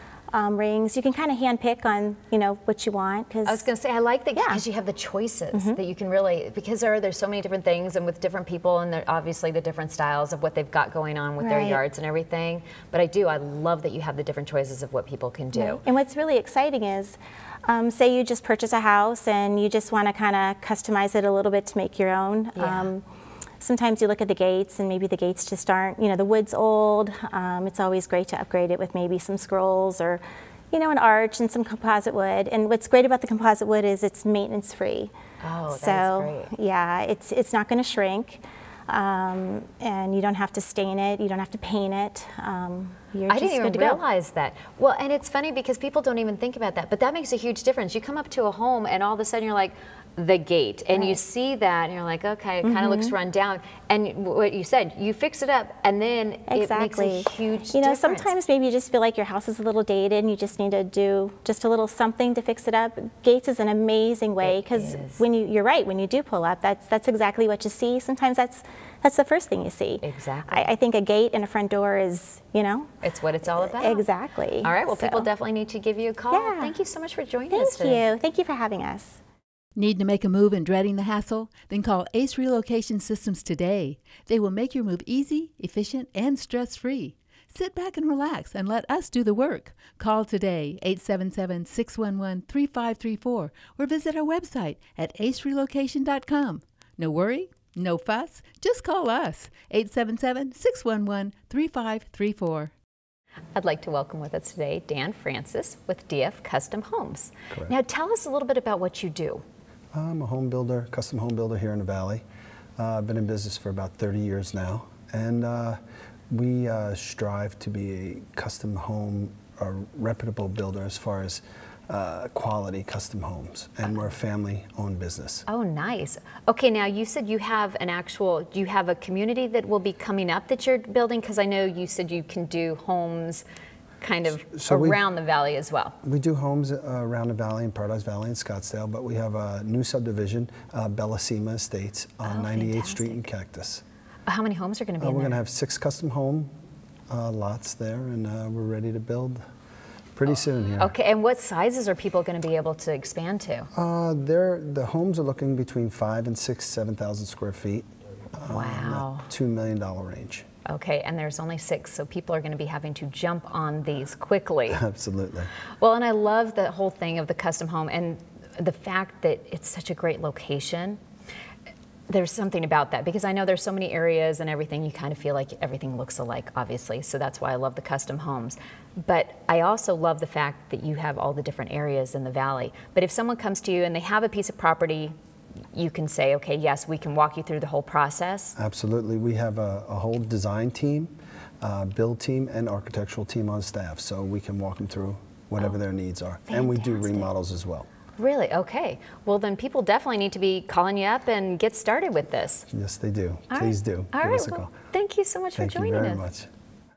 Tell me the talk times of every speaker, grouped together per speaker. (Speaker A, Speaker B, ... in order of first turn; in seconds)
Speaker A: 0.3-3.7, 4.3-4.6, 5.5-5.8, 11.4-11.8, 15.5-23.1, 23.6-35.1, 35.7-44.0, 50.9-51.2, 52.6-53.2, 56.5-73.0, 73.6-75.3, 76.3-76.8, 77.5-79.2
Speaker B: 3.5-15.8, 22.6-22.9, 35.4-36.5, 43.3-58.4, 64.4-65.2, 70.0-70.7, 73.0-74.0, 74.6-78.0, 103.6-109.4, 125.5-133.4, 134.0-136.0, 142.2-143.3, 144.3-145.4, 150.8-153.7, 158.5-159.3, 160.7-164.8, 165.8-171.0, 172.1-185.2, 185.7-188.6, 196.5-197.3, 198.2-202.7, 203.5-206.2
Speaker C: 79.8-102.7
Speaker D: 109.9-112.2, 112.8-125.5, 134.5-135.0, 136.0-143.8, 145.0-146.5, 147.1-149.4, 150.2-150.9, 153.7-160.4, 164.7-165.5, 188.6-197.9, 202.7-204.8, 205.6-206.5